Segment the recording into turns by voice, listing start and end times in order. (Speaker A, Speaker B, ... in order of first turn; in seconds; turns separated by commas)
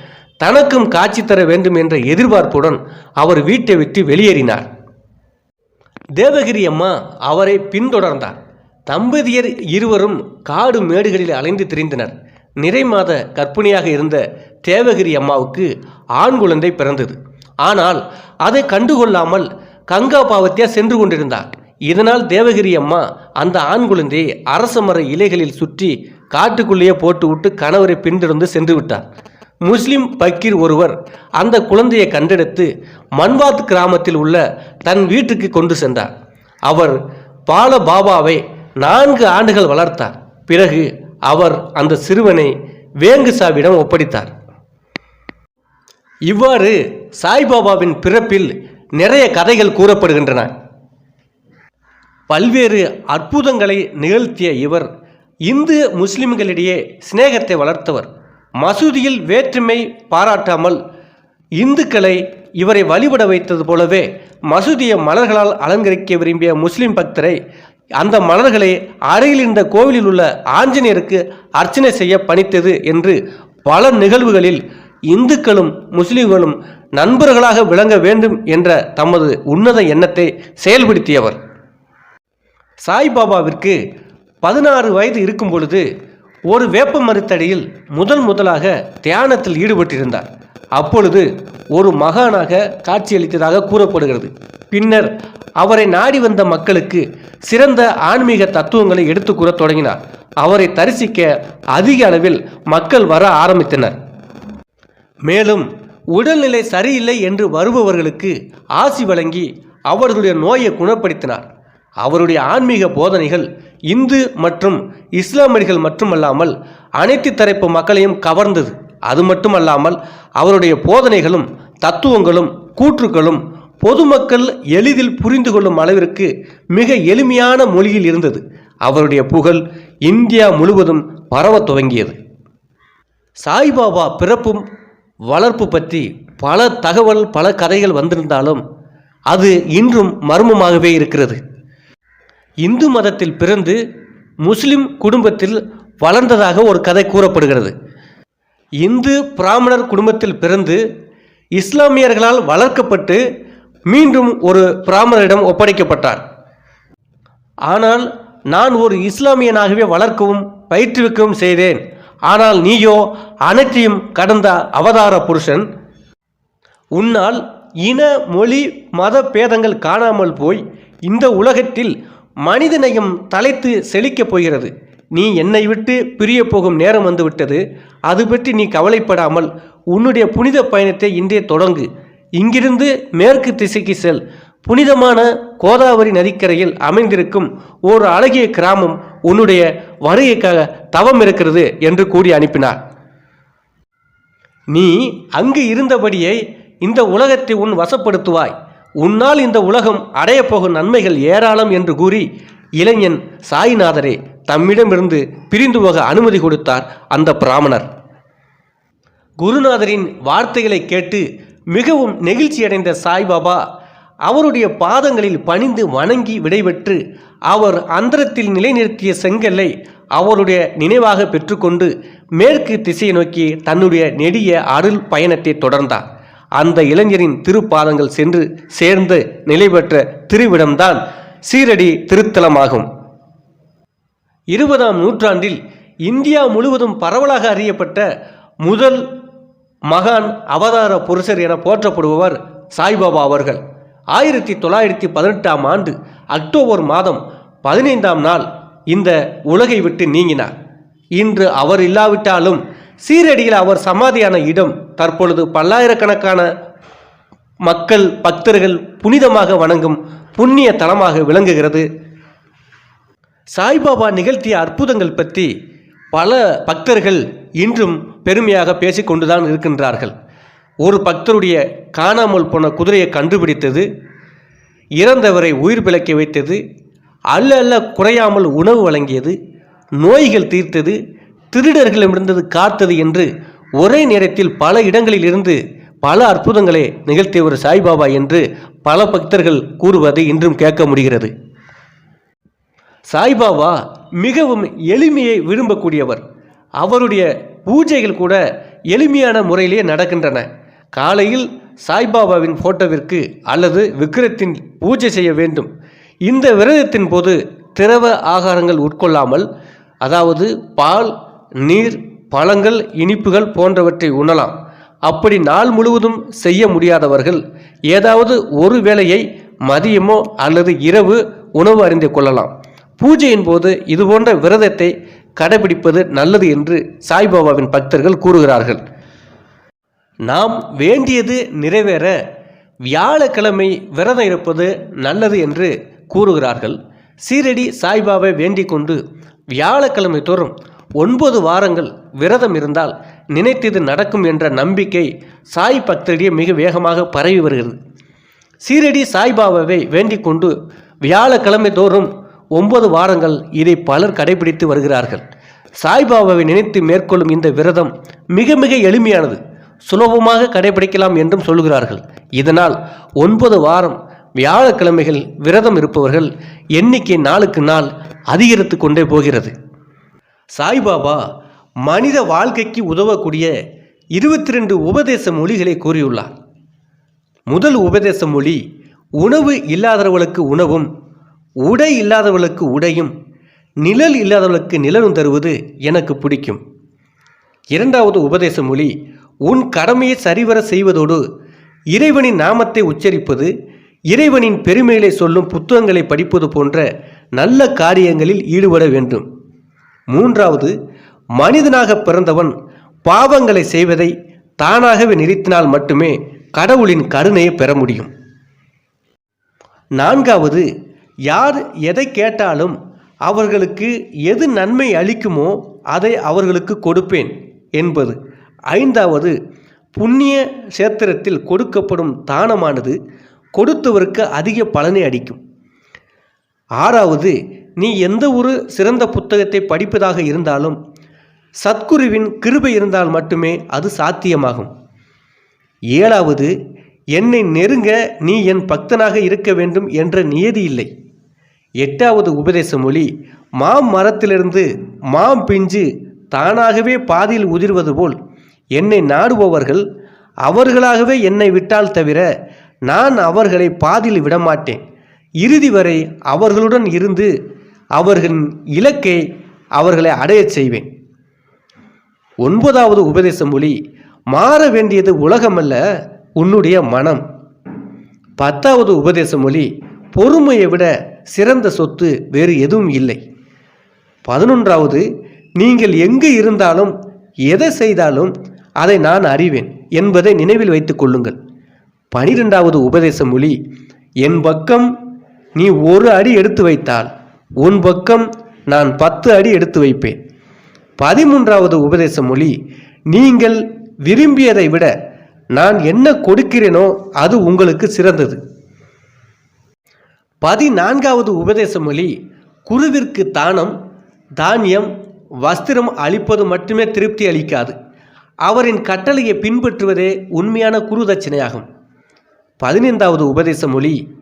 Speaker A: 0.4-4.7, Speaker A: 6.2-8.4, Speaker A: 8.9-29.0, Speaker A: 29.6-36.1, Speaker A: 36.7-37.0, Speaker A: 37.5-44.3, Speaker A: 46.3-50.5, Speaker A: 52.3-54.9, Speaker A: 55.5-58.1, Speaker A: 58.6-60.8, Speaker A: 61.6-67.4, Speaker A: 68.0-81.4, Speaker A: 82.8-83.8, Speaker A: 84.4-85.8, Speaker A: 86.5-103.9, Speaker A: 105.3-111.5, Speaker A: 112.0-132.2, Speaker A: 133.4-134.6, Speaker A: 135.3-138.6, Speaker A: 139.3-141.4, Speaker A: 142.6-143.8, Speaker A: 144.4-147.7, Speaker A: 148.8-150.8, Speaker A: 151.6-153.2, Speaker A: 153.9-156.2, Speaker A: 157.7-165.7, Speaker A: 166.9-181.9, Speaker A: 182.4-192.8, Speaker A: 194.7-202.2, Speaker A: 202.8-207.9, Speaker A: 209.4-213.6, Speaker A: 214.3-226.1, Speaker A: 226.6-232.9, Speaker A: 234.5-238.0, Speaker A: 238.6-239.0, Speaker A: 239.9-243.6, Speaker A: 244.1-250.5, Speaker A: 251.2-256.5, Speaker A: 257.6-261.8, Speaker A: 263.6-265.5, Speaker A: 266.1-270.1, Speaker A: 270.8-273.9, Speaker A: 275.0-276.6, Speaker A: 277.3-279.4, Speaker A: 280.0-281.0, Speaker A: 281.5-291.3, Speaker A: 293.1-296.2, Speaker A: 296.8-305.7, Speaker A: 306.3-309.4, Speaker A: 310.0-314.5, Speaker A: 315.1-328.8, Speaker A: 330.3-332.2, Speaker A: 332.9-339.0, Speaker A: 339.5-347.8, Speaker A: 348.6-350.5, Speaker A: 351.0-355.2, Speaker A: 355.8-369.5, Speaker A: 370.6-371.2, Speaker A: 371.9-373.5, Speaker A: 374.1-376.3, Speaker A: 377.5-378.6, Speaker A: 379.2-380.9, Speaker A: 381.6-383.1, Speaker A: 383.8-386.6, Speaker A: 387.7-388.9, Speaker A: 389.5-391.2, Speaker A: 391.9-393.5, Speaker A: 394.1-396.9, Speaker A: 397.4-399.2, Speaker A: 400.1-400.7, Speaker A: 401.4-402.5, Speaker A: 403.1-408.1, Speaker A: 410.0-410.6, Speaker A: 411.3-418.2, Speaker A: 418.7-419.3, Speaker A: 419.9-422.9, Speaker A: 423.6-425.4, Speaker A: 426.8-430.8, Speaker A: 431.6-434.7, Speaker A: 435.9-436.5, Speaker A: 437.1-440.9, Speaker A: 441.8-448.2, Speaker A: 448.8-449.8, Speaker A: 450.4-452.2, Speaker A: 452.9-454.8, Speaker A: 455.4-457.3, Speaker A: 458.0-459.2, Speaker A: 459.8-460.9, Speaker A: 462.4-463.7, Speaker A: 464.3-465.8, Speaker A: 466.4-467.2, Speaker A: 468.4-473.2, Speaker A: 474.3-475.0, Speaker A: 475.6-476.9, Speaker A: 477.5-481.4, Speaker A: 482.1-483.6, Speaker A: 484.2-484.9, Speaker A: 485.6-487.1, Speaker A: 487.6-490.1, Speaker A: 491.0-492.5, Speaker A: 493.1-494.9, Speaker A: 495.6-498.4, Speaker A: 500.4-502.1, Speaker A: 502.6-503.8, Speaker A: 504.4-504.9, Speaker A: 505.4-507.7, Speaker A: 508.4-511.7, Speaker A: 512.6-514.0